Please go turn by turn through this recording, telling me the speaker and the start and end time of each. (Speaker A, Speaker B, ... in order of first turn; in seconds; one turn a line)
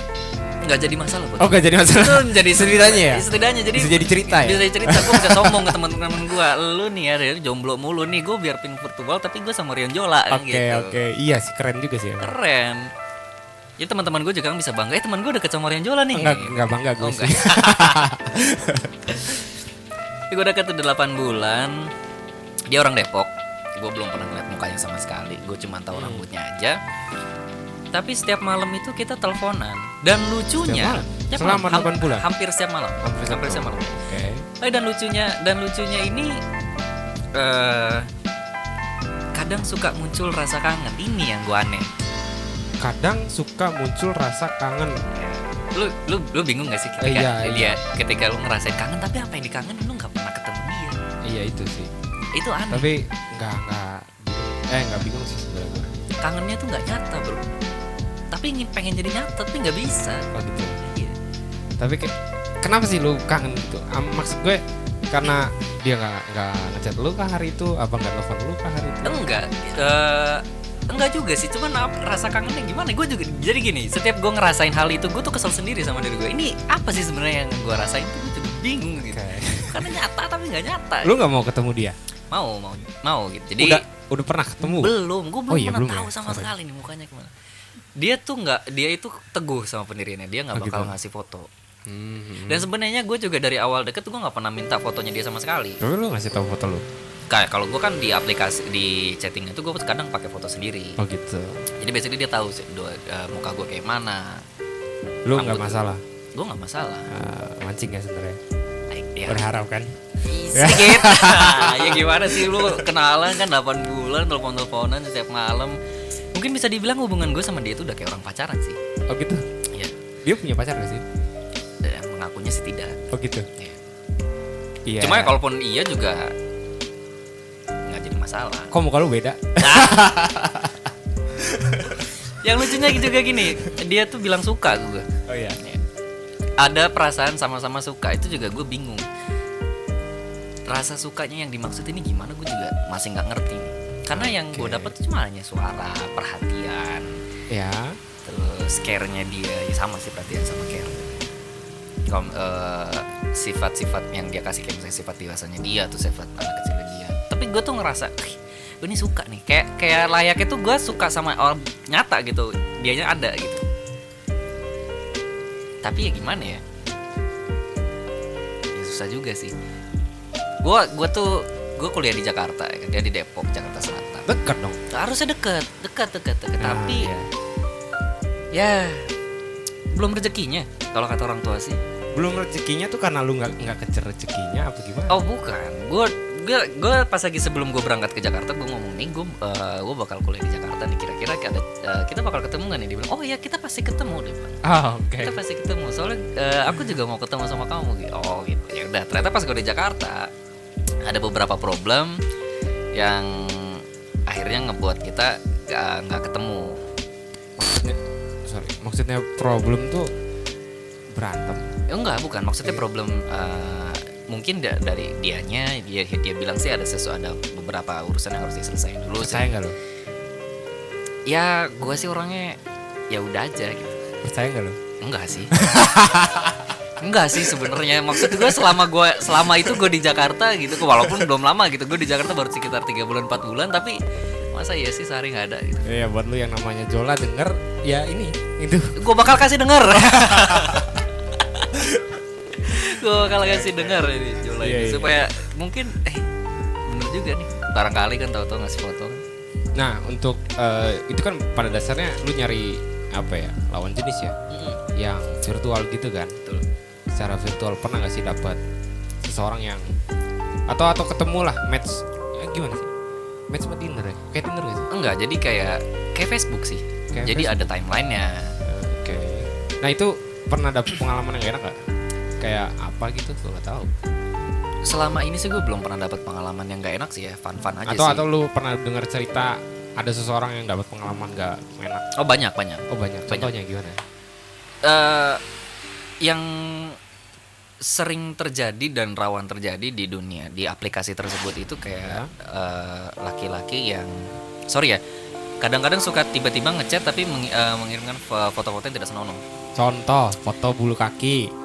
Speaker A: 0.6-11.0
Speaker B: 1.4-5.8
Speaker B: 10.3-12.3
Speaker A: 12.2-12.9
Speaker A: 13.8-18.1
Speaker B: 16.1-19.2
Speaker A: 19.1-19.4
Speaker A: 20.3-21.9
Speaker A: 22.7-26.8
Speaker B: 25.9-26.2
Speaker A: 27.9-34.0
Speaker B: 30.6-32.3
Speaker B: 33.0-34.5
Speaker A: 34.6-36.4
Speaker A: 37.3-38.1
Speaker A: 39.3-41.9
Speaker B: 42.8-44.9
Speaker A: 45.1-51.0
Speaker B: 47.0-47.8
Speaker B: 51.2-51.9
Speaker A: 52.3-52.9
Speaker B: 52.7-55.9
Speaker A: 56.2-57.4
Speaker A: 58.3-60.3
Speaker B: 60.3-60.8
Speaker A: 60.8-61.1
Speaker B: 61.8-69.4
Speaker A: 69.0-81.1
Speaker B: 79.0-79.9
Speaker B: 81.0-82.0
Speaker A: 82.3-83.8
Speaker B: 83.6-84.9
Speaker A: 84.6-87.3
Speaker B: 85.5-86.5
Speaker A: 88.0-91.5
Speaker B: 90.5-90.9
Speaker B: 91.9-92.7
Speaker A: 92.5-95.8
Speaker B: 95.8-96.8
Speaker A: 97.3-101.0
Speaker B: 101.0-101.6
Speaker A: 101.8-104.4
Speaker B: 105.2-106.0
Speaker A: 105.3-105.8
Speaker A: 106.3-107.1
Speaker B: 107.1-108.4
Speaker A: 108.9-109.4
Speaker B: 109.3-109.9
Speaker A: 110.2-115.8
Speaker B: 110.5-112.8
Speaker A: 116.3-118.8
Speaker B: 119.1-119.4
Speaker B: 120.2-121.0
Speaker A: 121.8-123.0
Speaker B: 123.1-123.5
Speaker B: 124.8-125.3
Speaker A: 125.0-126.3
Speaker A: 127.8-128.7
Speaker B: 128.7-132.1
Speaker A: 129.6-130.0
Speaker A: 132.2-135.1
Speaker B: 132.6-133.6
Speaker B: 135.3-135.6
Speaker A: 136.6-139.0
Speaker A: 140.7-147.1
Speaker B: 144.1-144.9
Speaker B: 147.5-148.0
Speaker A: 148.2-151.1
Speaker A: 152.1-163.6
Speaker A: 165.8-166.6
Speaker A: 168.7-169.5
Speaker A: 170.6-174.3
Speaker B: 174.3-174.8
Speaker A: 174.9-177.1
Speaker B: 176.6-177.3
Speaker A: 178.5-179.1
Speaker A: 179.9-181.8
Speaker B: 182.1-185.2
Speaker A: 185.1-194.6
Speaker B: 194.6-195.4
Speaker A: 195.2-200.3
Speaker A: 201.0-202.2
Speaker A: 202.9-206.8
Speaker B: 207.6-210.1
Speaker B: 211.1-211.7
Speaker A: 211.9-219.5
Speaker B: 219.2-219.8
Speaker A: 221.3-222.6
Speaker A: 223.1-224.0
Speaker B: 224.2-224.8
Speaker A: 225.0-225.6
Speaker B: 225.5-226.7
Speaker A: 227.0-234.0
Speaker B: 227.3-228.8
Speaker B: 229.3-229.8
Speaker B: 231.0-231.3
Speaker A: 234.5-235.9
Speaker B: 235.8-238.9
Speaker A: 238.9-241.7
Speaker B: 239.9-241.0
Speaker B: 241.7-242.2
Speaker A: 242.6-246.2
Speaker B: 242.7-245.2
Speaker A: 246.9-249.2
Speaker B: 249.8-254.3
Speaker A: 254.5-254.8
Speaker B: 254.9-256.3
Speaker B: 257.1-258.6
Speaker B: 259.2-259.9
Speaker B: 260.7-262.9
Speaker B: 263.5-264.9
Speaker A: 264.9-268.5
Speaker B: 267.1-267.7
Speaker B: 268.6-271.7
Speaker B: 272.4-273.9
Speaker A: 274.8-278.2
Speaker B: 277.9-282.0
Speaker A: 282.2-283.5
Speaker B: 282.9-284.0
Speaker A: 284.8-285.4
Speaker A: 286.2-287.0
Speaker A: 287.8-295.0
Speaker B: 292.0-292.3
Speaker A: 295.6-299.4
Speaker B: 299.8-301.5